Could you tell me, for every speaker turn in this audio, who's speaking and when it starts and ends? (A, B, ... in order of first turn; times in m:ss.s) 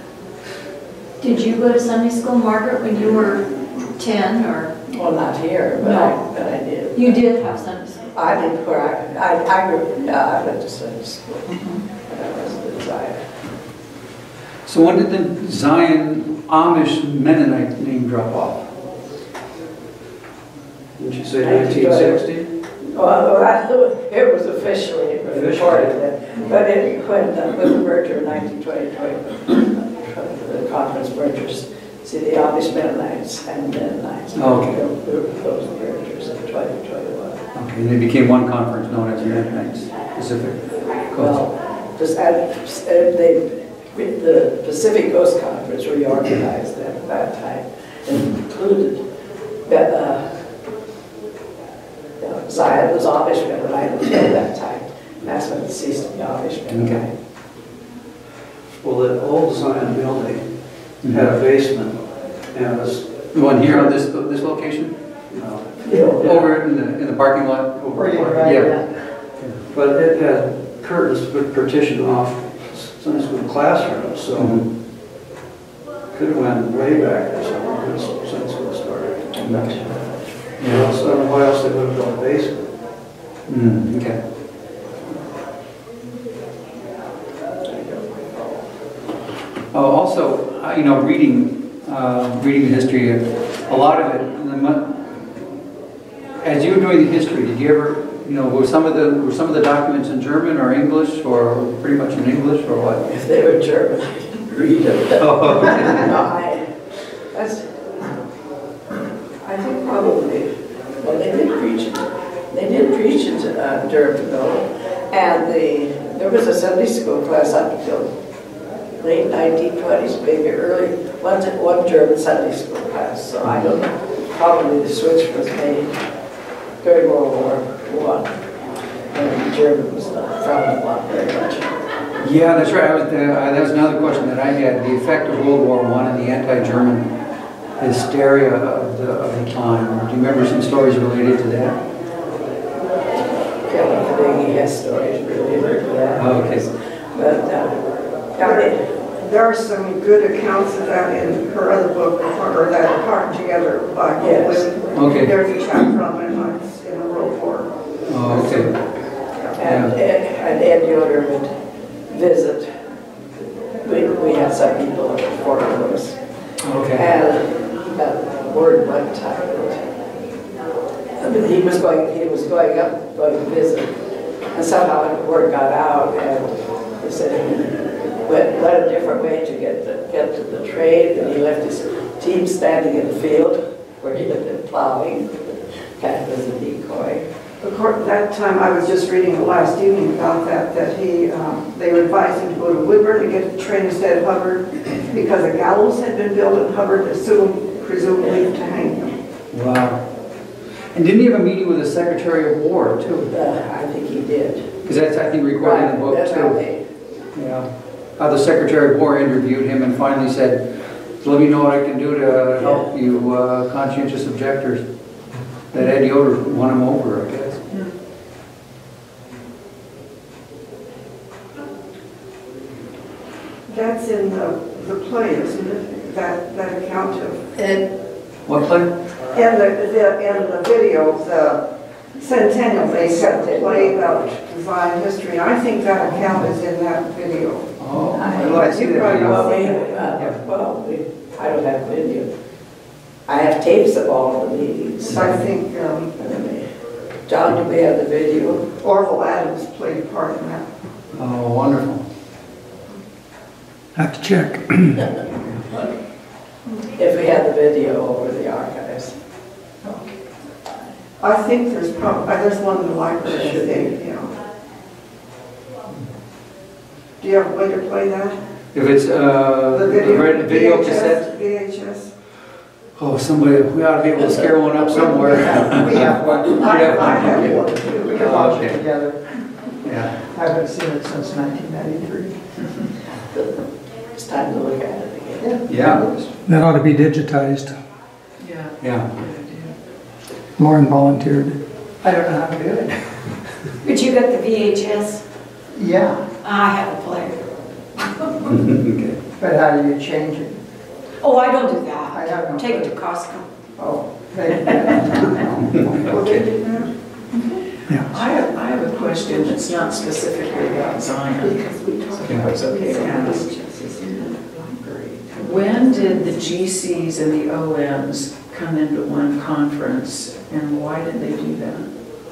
0:01.2-0:04.7 A
0:04.9-0:07.2 B
0:05.8-0:06.2 A
0:06.9-0:08.0 A
0:08.1-0:13.2 B
0:14.7-0:18.7 C
0:21.0-0:22.5 D
0:21.4-0:22.2 B
0:22.9-0:37.4 B
0:25.3-0:25.9 D
0:34.4-0:34.8 C
0:37.5-0:41.4 C
0:41.1-0:49.0 B
0:49.6-0:50.4 B
0:52.2-0:57.1 B
0:56.7-0:57.0 C
0:58.8-1:00.5 D
1:01.0-1:02.0 D
1:01.0-1:01.3 C
1:02.5-1:03.9 D
1:03.3-1:04.9 C
1:05.3-1:06.5 D
1:05.8-1:06.3 B
1:06.2-1:08.7 C
1:07.8-1:08.6 D
1:07.9-1:08.8 E
1:09.7-1:14.6 D
1:14.4-1:14.6 C
1:16.1-1:22.7 D
1:19.4-1:19.8 C
1:20.6-1:20.9 C
1:23.5-1:24.2 C
1:27.7-1:28.4 B
1:29.7-1:35.0 C
1:36.4-1:43.0 C
1:43.0-1:46.7 B
1:45.2-1:46.2 C
1:47.3-1:47.7 B
1:49.4-1:58.1 B
1:59.0-2:06.0 B
2:06.8-2:08.3 B
2:09.1-2:11.7 B
2:12.2-2:17.1 C
2:17.8-2:21.8 C
2:23.7-2:27.8 B
2:26.1-2:26.6 C
2:28.3-2:28.9 B
2:28.4-2:37.7 F
2:34.2-2:34.7 B
2:34.9-2:35.4 C
2:38.1-2:38.8 C
2:38.3-2:38.6 F
2:39.6-2:41.5 B
2:39.6-2:39.9 C
2:42.1-2:42.7 B
2:43.8-2:46.2 B
2:46.6-2:47.0 C
2:46.9-2:49.8 B
2:51.2-2:54.0 B
2:54.5-3:07.2 B
3:07.6-3:19.2 F
3:18.2-3:18.5 B
3:19.5-3:20.0 C
3:20.9-3:23.3 C
3:23.3-3:24.7 B
3:24.8-3:26.6 C
3:25.6-3:26.8 B
3:27.3-3:30.7 C
3:31.2-3:34.8 C
3:35.7-3:37.6 C
3:43.7-3:47.4 F
3:47.6-3:47.8 B
3:48.4-3:48.9 C
3:49.3-4:00.2 F
3:52.8-3:54.4 B
3:57.8-4:00.4 C
3:58.1-4:02.3 B
4:03.3-4:05.4 B
4:05.0-4:06.1 F
4:06.1-4:06.6 B
4:07.3-4:08.7 B
4:08.8-4:10.7 F
4:11.1-4:12.0 C
4:13.9-4:15.1 G
4:16.9-4:19.1 B
4:21.2-4:24.3 F
4:23.4-4:23.6 B
4:27.2-4:28.4 F
4:28.7-4:31.3 C
4:29.7-4:32.1 F
4:33.0-4:38.8 C
4:34.8-4:39.2 E
4:37.0-4:37.5 F
4:39.8-4:40.1 C
4:40.2-4:42.4 E
4:44.1-4:45.5 B
4:45.4-4:46.3 E
4:45.7-4:46.0 C
4:46.4-4:47.7 G
4:48.4-4:49.7 H
4:48.8-4:49.1 C
4:50.6-4:51.6 G
4:52.0-4:53.1 E
4:53.8-4:55.2 A
4:55.7-4:56.3 E
4:56.4-4:57.4 A
4:58.0-4:58.4 A
4:58.4-4:59.2 C
4:59.4-5:00.6 E
5:01.2-5:03.5 A
5:02.1-5:02.9 E
5:03.8-5:06.2 E
5:05.7-5:06.5 C
5:06.0-5:06.9 F
5:08.0-5:21.9 H
5:11.5-5:13.5 F
5:12.8-5:13.3 B